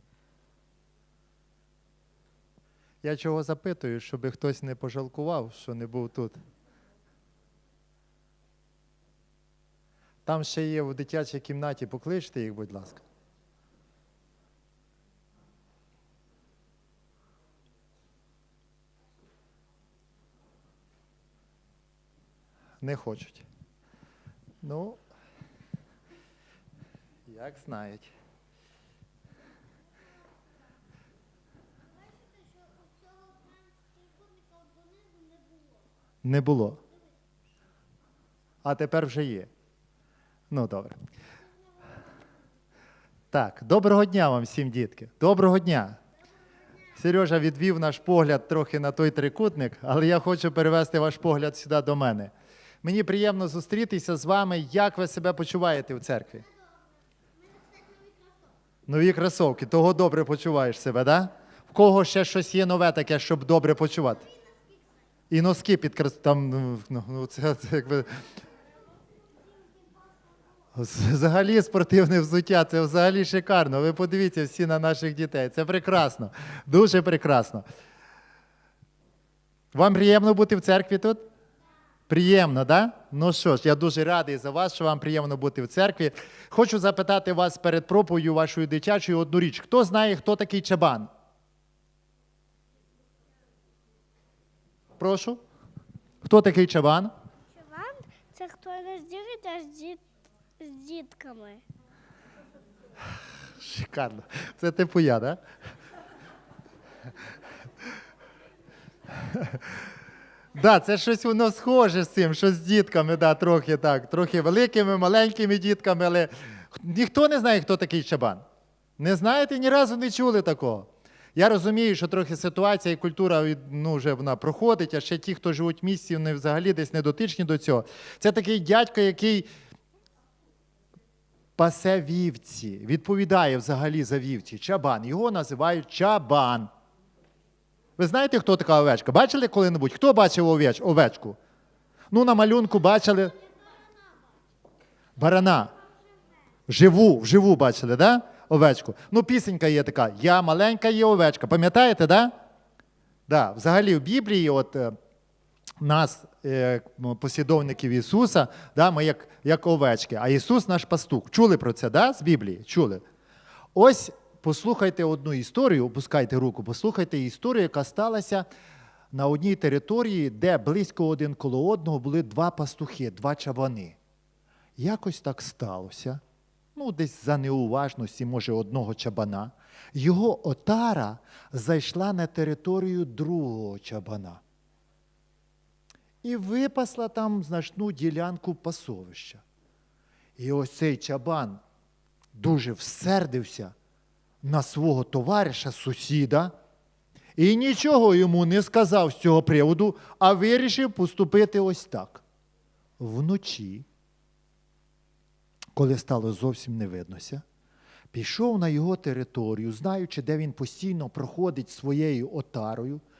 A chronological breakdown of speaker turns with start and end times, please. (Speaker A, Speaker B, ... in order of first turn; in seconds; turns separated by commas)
Speaker A: 3.0-6.4, Speaker A: 10.2-13.0, Speaker A: 22.8-23.4, Speaker A: 24.6-25.0, Speaker A: 27.2-28.1, Speaker B: 31.8-35.9, Speaker A: 36.2-36.8, Speaker A: 38.6-39.5, Speaker A: 40.5-41.0, Speaker A: 43.3-46.0, Speaker A: 46.9-56.4, Speaker B: 56.5-58.5, Speaker A: 58.9-64.2, Speaker B: 64.2-65.1, Speaker A: 65.3-68.2, Speaker B: 69.1-70.4, Speaker A: 70.7-77.6, Speaker A: 79.7-81.2, Speaker A: 82.1-91.1, Speaker A: 95.0-95.4, Speaker A: 96.2-97.1, Speaker B: 97.5-100.0, Speaker B: 100.6-101.6, Speaker A: 103.4-105.4, Speaker A: 109.3-109.6, Speaker A: 110.5-118.4, Speaker A: 119.0-129.5, Speaker A: 131.6-136.7, Speaker A: 138.0-141.4, Speaker A: 142.1-143.3, Speaker B: 143.1-144.3, Speaker A: 145.2-145.7, Speaker A: 146.7-152.3, Speaker A: 153.3-154.9, Speaker A: 155.8-163.0, Speaker A: 163.7-168.5, Speaker A: 169.1-174.0, Speaker A: 174.8-176.2, Speaker A: 176.7-184.4, Speaker A: 186.2-189.4, Speaker A: 190.4-191.6, Speaker A: 192.3-193.7, Speaker A: 194.4-196.5, Speaker A: 197.3-202.2, Speaker A: 203.0-203.8, Speaker A: 205.7-207.4, Speaker A: 208.1-213.0